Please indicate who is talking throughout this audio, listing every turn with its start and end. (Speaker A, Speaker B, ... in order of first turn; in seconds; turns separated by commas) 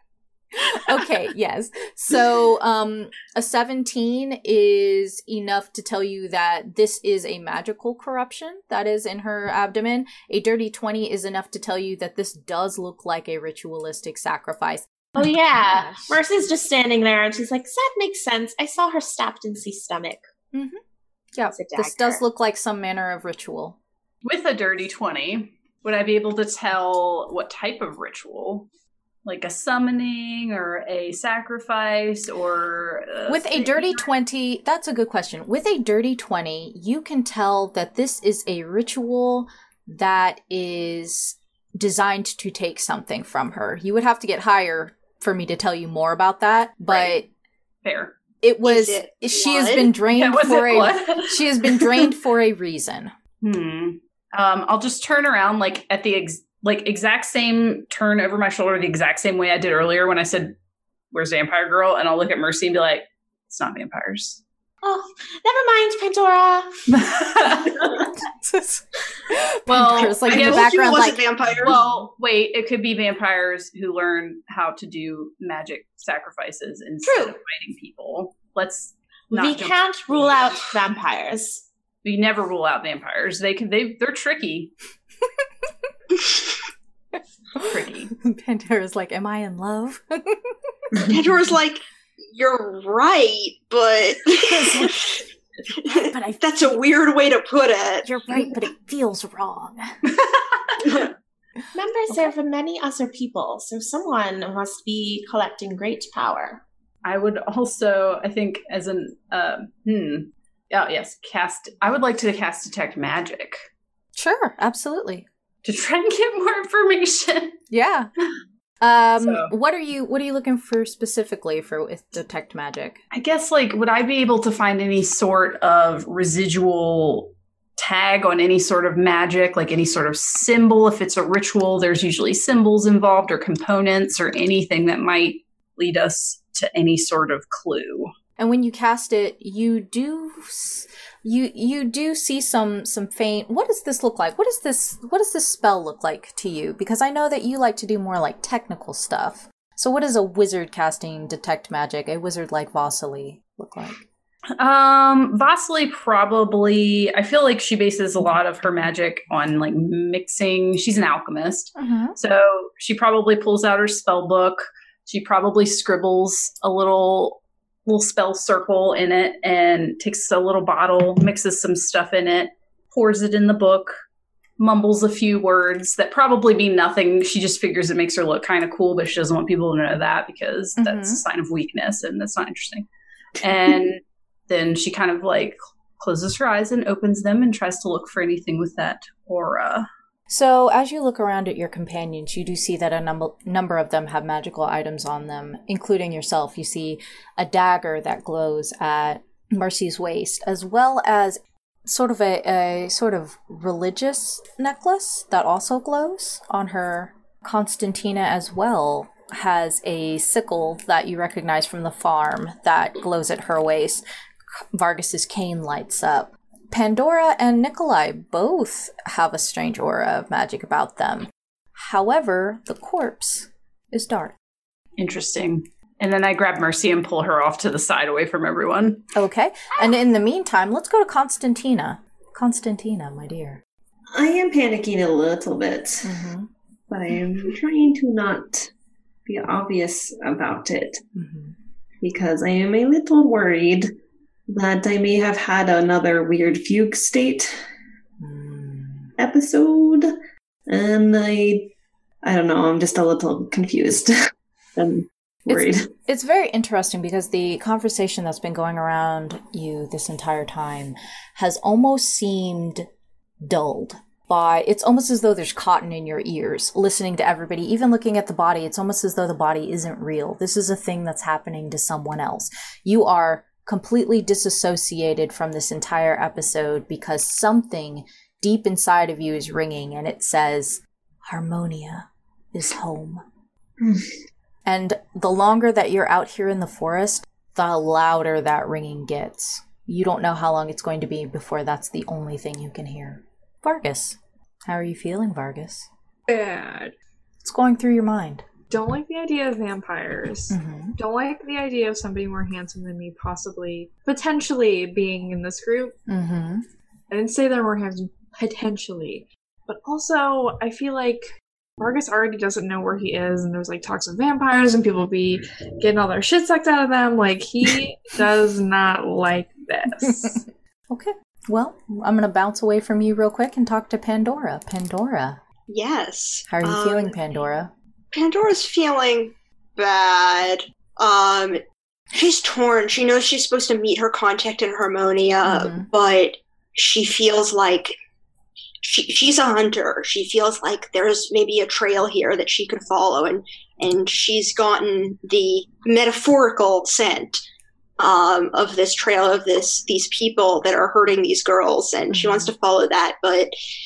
Speaker A: 0.6-16.2, Speaker B: 15.2-20.3, Speaker A: 20.5-20.8, Speaker A: 21.3-23.8, Speaker B: 21.5-22.2, Speaker C: 24.2-28.7, Speaker C: 29.2-34.1, Speaker A: 33.3-47.3, Speaker C: 47.8-48.1, Speaker A: 48.4-53.1, Speaker D: 48.6-49.9, Speaker C: 50.1-52.1, Speaker C: 53.4-60.5, Speaker C: 61.1-64.4, Speaker B: 64.8-66.9, Speaker C: 67.0-67.9, Speaker A: 68.3-71.8, Speaker C: 69.7-70.8, Speaker D: 70.3-71.8, Speaker C: 71.6-80.5, Speaker A: 77.0-77.4, Speaker B: 79.3-81.6, Speaker C: 82.0-84.7, Speaker C: 87.6-88.1, Speaker A: 88.2-90.5, Speaker D: 91.1-95.2, Speaker A: 94.4-95.0, Speaker D: 95.8-98.1, Speaker A: 95.9-96.7, Speaker A: 98.0-99.9, Speaker C: 100.2-101.0, Speaker B: 101.7-106.6, Speaker C: 107.0-113.7, Speaker A: 114.2-115.3, Speaker C: 115.6-117.6, Speaker A: 117.7-118.1, Speaker A: 118.8-123.0, Speaker C: 119.2-119.5, Speaker C: 123.1-138.1, Speaker A: 138.4-154.0, Speaker C: 154.6-174.0, Speaker A: 161.8-162.2, Speaker C: 174.6-182.9, Speaker A: 180.8-181.2, Speaker C: 183.4-189.9, Speaker A: 190.3-214.0, Speaker A: 214.7-224.3, Speaker C: 225.0-229.0, Speaker A: 229.1-233.6, Speaker E: 234.1-236.2, Speaker A: 236.0-236.5, Speaker E: 236.9-238.7, Speaker E: 239.3-241.0, Speaker A: 241.1-241.6, Speaker E: 242.0-243.9, Speaker E: 244.5-247.6, Speaker A: 248.2-249.1, Speaker E: 249.2-250.1, Speaker E: 250.7-251.7, Speaker E: 252.2-255.9, Speaker A: 255.5-262.9, Speaker A: 263.4-283.2, Speaker E: 283.8-284.1, Speaker A: 284.6-295.9, Speaker F: 296.3-296.9, Speaker A: 297.4-298.4, Speaker F: 298.7-306.0, Speaker A: 300.5-301.0, Speaker A: 306.1-306.6, Speaker F: 307.1-320.4, Speaker A: 320.0-325.4, Speaker D: 325.7-327.1, Speaker A: 326.5-327.7, Speaker D: 328.1-331.6, Speaker D: 332.1-338.0, Speaker A: 335.4-335.9, Speaker D: 338.8-347.4, Speaker D: 348.0-353.5, Speaker A: 352.1-352.5